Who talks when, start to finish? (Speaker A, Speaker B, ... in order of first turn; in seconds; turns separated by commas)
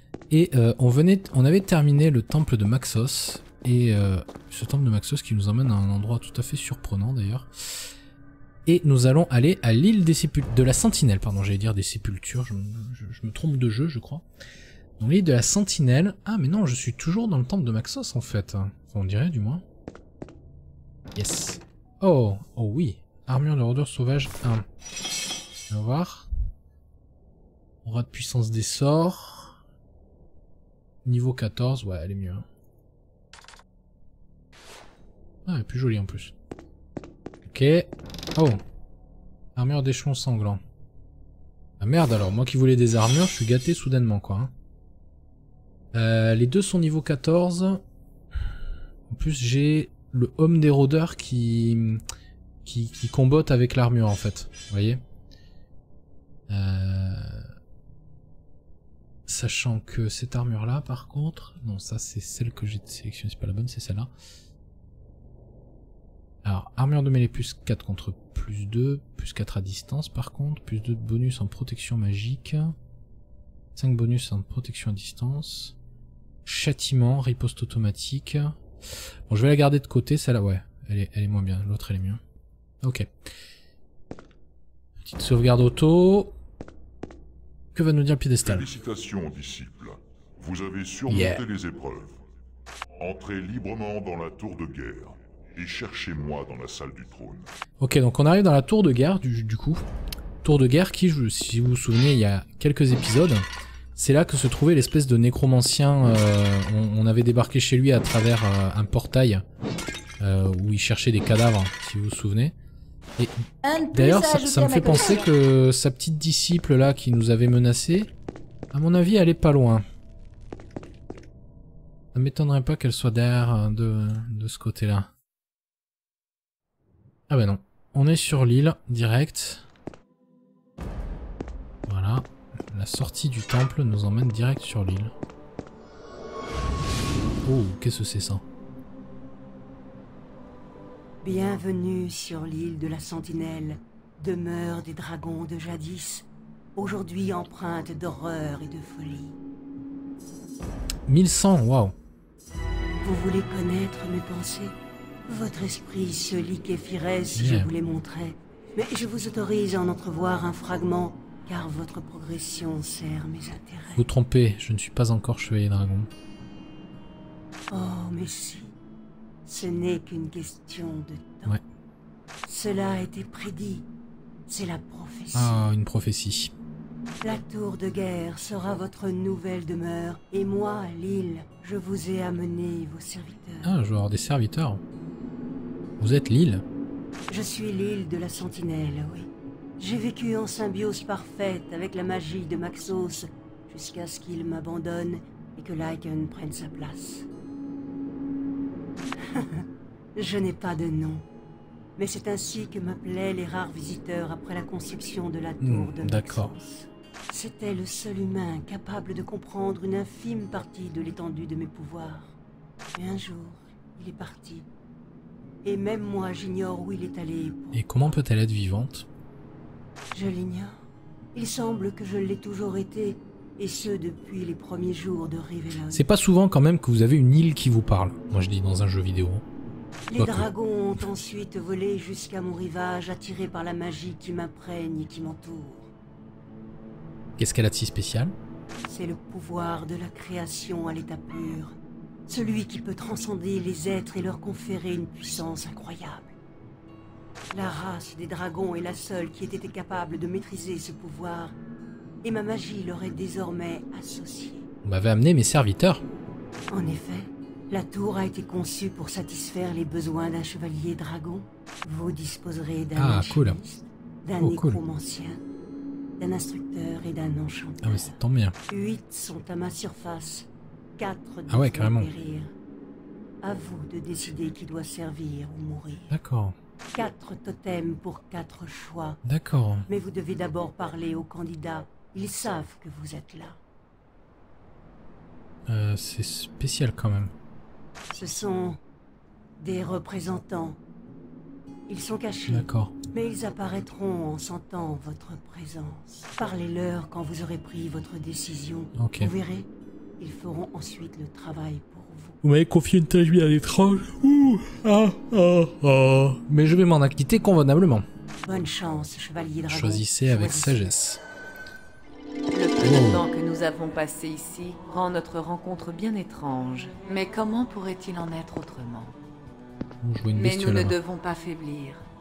Speaker A: 0.3-7.5, Speaker A: 8.7-14.2, Speaker A: 15.0-19.6, Speaker A: 21.1-24.6, Speaker A: 25.7-26.3, Speaker A: 27.9-29.6, Speaker A: 31.1-32.5, Speaker A: 35.5-36.3, Speaker A: 37.5-38.6, Speaker A: 39.6-40.6, Speaker A: 41.8-44.5, Speaker A: 45.9-47.8, Speaker A: 49.1-52.0, Speaker A: 52.6-55.0, Speaker A: 56.5-57.5, Speaker A: 59.3-64.1, Speaker A: 66.4-72.8, Speaker A: 73.8-75.8, Speaker A: 76.5-78.6, Speaker A: 79.3-82.2, Speaker A: 82.8-83.1, Speaker A: 85.0-86.3, Speaker A: 87.7-88.7, Speaker B: 88.4-92.2, Speaker A: 91.1-91.4, Speaker B: 93.0-97.5, Speaker A: 97.8-99.8, Speaker A: 100.4-109.4, Speaker A: 110.2-112.5, Speaker A: 113.2-118.1, Speaker C: 113.7-115.2, Speaker A: 118.7-119.8, Speaker A: 122.1-125.1, Speaker A: 127.3-129.7, Speaker A: 131.9-135.1, Speaker A: 137.4-138.4, Speaker D: 141.2-149.4, Speaker A: 151.1-151.9, Speaker D: 153.0-164.1, Speaker A: 157.3-157.7, Speaker A: 163.9-166.1, Speaker D: 167.7-168.8, Speaker D: 169.5-171.6, Speaker D: 172.5-173.9, Speaker D: 174.5-175.7, Speaker A: 175.3-176.5, Speaker D: 177.2-183.7, Speaker A: 183.6-184.8, Speaker A: 186.0-186.7, Speaker D: 187.3-197.3, Speaker D: 199.3-199.6, Speaker D: 200.2-201.2, Speaker D: 202.0-212.4, Speaker A: 205.6-206.5, Speaker D: 212.9-214.7, Speaker D: 215.6-218.2, Speaker A: 217.7-219.1, Speaker D: 220.1-220.8, Speaker D: 221.3-226.1, Speaker A: 225.9-229.4, Speaker D: 230.1-235.9, Speaker A: 230.2-230.5, Speaker A: 237.4-238.3, Speaker D: 238.9-246.3, Speaker D: 247.5-251.6, Speaker D: 252.2-254.7, Speaker A: 254.8-256.0, Speaker D: 256.7-265.4, Speaker A: 263.0-263.6, Speaker A: 264.4-264.8, Speaker D: 266.2-268.2, Speaker A: 267.8-268.6, Speaker D: 268.7-272.5, Speaker A: 271.5-272.1, Speaker D: 273.4-276.1, Speaker A: 276.1-276.6, Speaker D: 276.9-279.2, Speaker A: 279.2-279.9, Speaker D: 279.9-283.6, Speaker A: 285.7-287.3, Speaker D: 288.1-288.8, Speaker D: 289.6-290.8, Speaker D: 291.9-302.4, Speaker A: 292.5-293.0, Speaker A: 299.0-299.3, Speaker A: 302.4-308.1, Speaker D: 308.4-310.9, Speaker A: 309.7-311.2, Speaker C: 312.5-319.1, Speaker A: 312.8-313.2, Speaker A: 320.0-321.0, Speaker C: 320.3-322.1